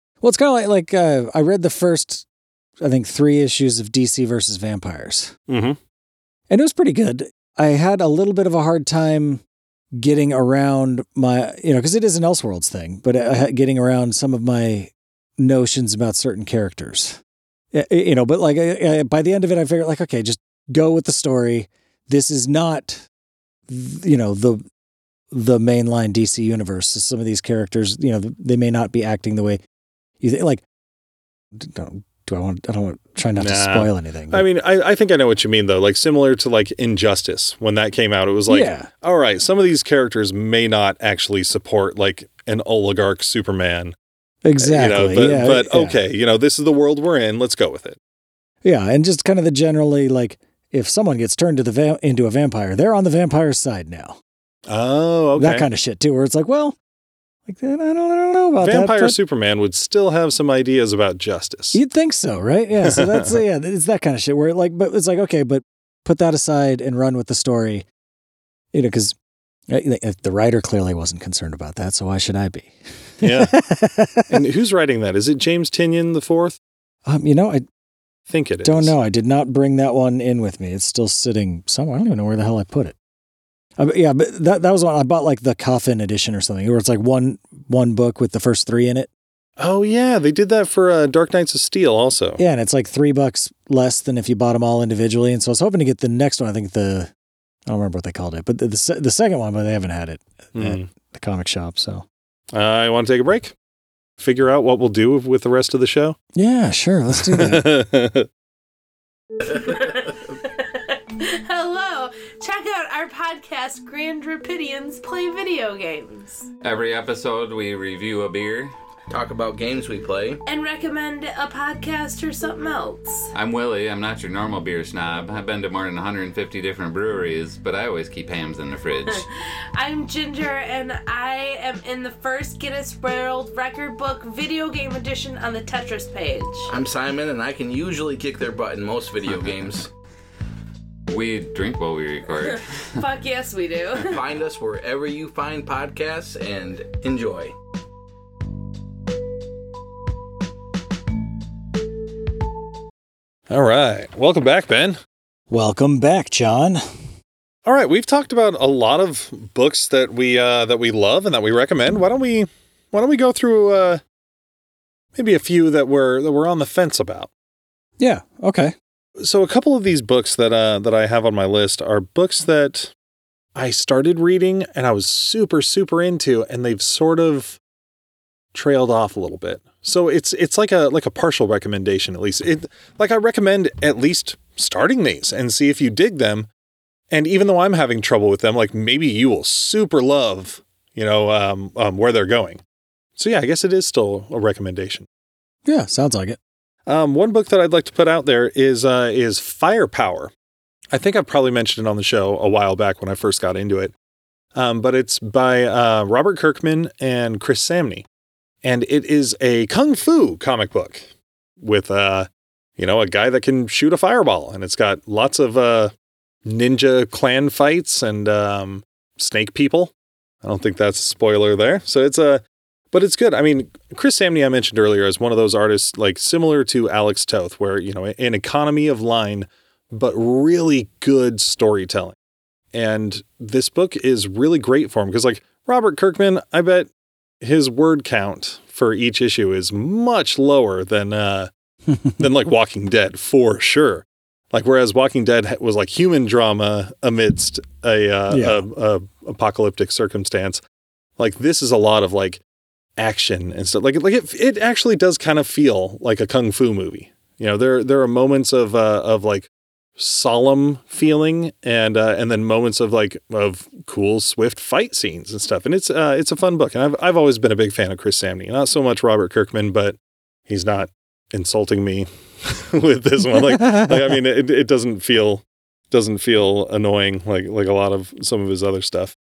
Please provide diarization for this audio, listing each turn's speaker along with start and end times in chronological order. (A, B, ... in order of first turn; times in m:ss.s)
0:00.2-0:02.2 A
0:02.8-0:05.3 A
0:05.5-0:05.8 B
0:06.5-0:09.4 A
0:10.0-0:17.2 A
0:17.7-0:23.0 A
0:23.7-0:24.6 A
0:25.3-0:29.6 A
0:30.2-0:30.6 A
0:31.5-0:34.4 A
0:33.4-0:43.9 B
0:38.5-0:38.9 A
0:44.4-0:46.0 A
0:44.6-0:48.0 B
0:48.6-0:54.2 A
0:54.7-0:55.7 B
0:55.4-0:56.8 A
0:57.5-0:59.2 A
0:58.6-1:01.8 B
1:01.7-1:07.8 A
1:02.8-1:03.4 B
1:08.7-1:09.2 A
1:09.7-1:14.4 A
1:13.2-1:13.6 B
1:14.3-1:16.6 B
1:17.0-1:17.6 A
1:18.3-1:18.9 B
1:18.6-1:22.9 A
1:23.8-1:29.1 A
1:29.6-1:32.4 B
1:32.4-1:37.1 A
1:37.6-1:42.0 A
1:40.6-1:40.8 B
1:42.5-1:43.5 B
1:44.2-1:46.2 B
1:46.4-1:47.7 A
1:47.2-1:48.3 B
1:49.4-1:56.5 C
1:56.6-1:58.7 D
1:59.1-2:00.4 E
2:00.4-2:03.3 C
2:03.3-2:09.2 D
2:09.0-2:16.7 C
2:16.7-2:19.9 E
2:19.3-2:19.6 D
2:21.1-2:23.0 D
2:22.4-2:24.2 C
2:24.0-2:27.5 E
2:33.5-2:35.0 B
2:35.5-2:36.8 A
2:37.6-2:44.0 B
2:45.1-2:47.3 B
2:48.0-2:48.7 A
2:49.2-2:52.9 B
2:53.5-2:57.6 B
2:58.5-3:06.5 B
3:07.1-3:12.6 B
3:13.2-3:15.0 B
3:15.6-3:16.4 A
3:16.8-3:20.3 B
3:20.9-3:23.9 B
3:24.5-3:28.0 B
3:28.6-3:35.9 B
3:36.4-3:39.9 B
3:40.4-3:52.2 B
3:52.7-3:56.9 B
3:57.4-4:01.5 B
4:02.2-4:10.6 B
4:08.3-4:08.6 A
4:11.2-4:12.4 B
4:13.0-4:39.1 B
4:33.3-4:34.0 A